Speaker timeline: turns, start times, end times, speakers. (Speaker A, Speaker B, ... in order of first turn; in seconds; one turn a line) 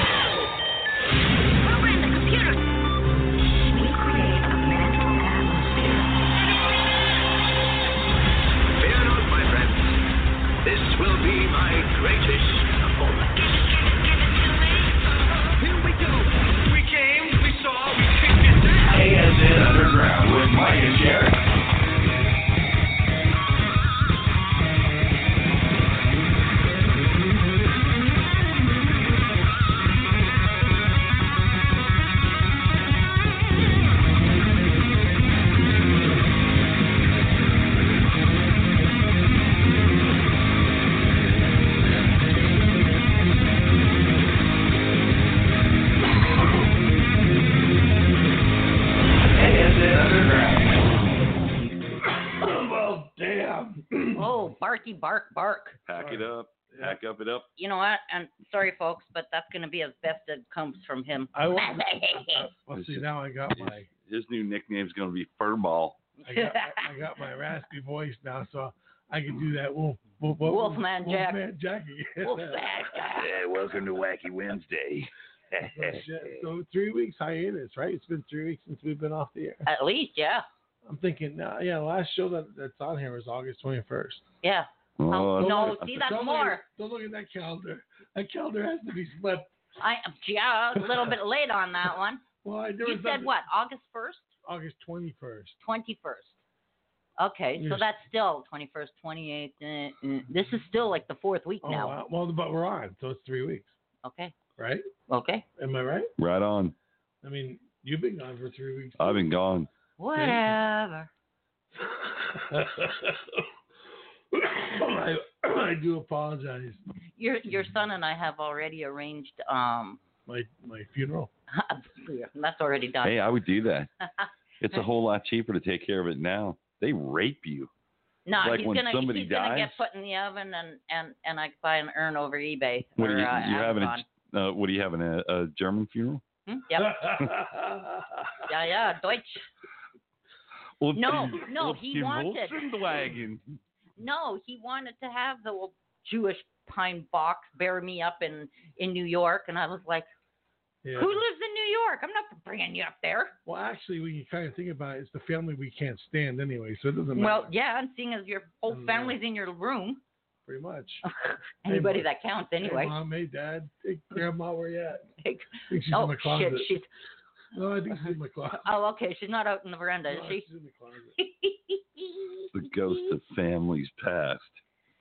Speaker A: 1.6-2.6
Speaker A: 3.6-6.1
Speaker B: 8.8-10.0
Speaker B: 10.6-14.9
Speaker B: 15.5-19.1
Speaker C: 18.9-21.4
Speaker C: 49.4-50.8
Speaker D: 52.2-54.3
Speaker E: 54.1-55.8
Speaker F: 55.9-57.5
Speaker D: 56.0-57.0
Speaker E: 57.6-62.5
Speaker D: 61.3-63.9
Speaker F: 62.8-63.0
Speaker F: 63.6-66.0
Speaker E: 66.2-66.9
Speaker D: 66.3-72.8
Speaker E: 70.4-71.4
Speaker E: 72.3-73.3
Speaker F: 72.9-75.1
Speaker F: 75.6-76.1
Speaker D: 75.7-79.7
Speaker E: 79.7-80.5
Speaker D: 80.8-84.2
Speaker E: 84.4-86.6
Speaker F: 85.0-86.1
Speaker D: 85.4-89.5
Speaker E: 89.8-92.2
Speaker D: 90.8-91.1
Speaker D: 92.4-93.3
Speaker E: 92.8-94.3
Speaker D: 94.5-95.6
Speaker E: 95.6-96.4
Speaker E: 97.2-102.0
Speaker D: 97.6-97.9
Speaker D: 101.6-103.7
Speaker E: 104.0-104.3
Speaker D: 104.6-104.9
Speaker E: 105.1-105.5
Speaker D: 105.6-106.1
Speaker F: 106.2-106.7
Speaker D: 107.2-109.2
Speaker F: 109.0-109.7
Speaker E: 110.0-111.1
Speaker D: 110.2-110.5
Speaker D: 111.8-113.5
Speaker D: 114.3-116.8
Speaker E: 117.2-120.0
Speaker D: 120.3-121.3
Speaker E: 121.5-123.2
Speaker F: 123.0-123.9
Speaker E: 124.2-124.8
Speaker F: 124.6-127.7
Speaker E: 128.3-134.1
Speaker F: 128.4-129.8
Speaker F: 133.0-136.2
Speaker E: 136.5-137.2
Speaker D: 136.8-138.4
Speaker E: 138.4-139.5
Speaker F: 140.8-143.4
Speaker E: 140.9-142.9
Speaker E: 144.0-150.1
Speaker D: 150.8-151.2
Speaker E: 150.9-153.4
Speaker D: 153.5-157.5
Speaker E: 157.2-160.0
Speaker D: 158.7-159.2
Speaker D: 160.5-161.0
Speaker E: 161.1-162.9
Speaker D: 161.7-162.1
Speaker D: 162.6-165.1
Speaker E: 165.2-166.9
Speaker D: 165.7-166.7
Speaker D: 167.5-168.7
Speaker E: 168.6-170.5
Speaker D: 170.1-171.2
Speaker E: 171.2-173.1
Speaker F: 172.5-174.6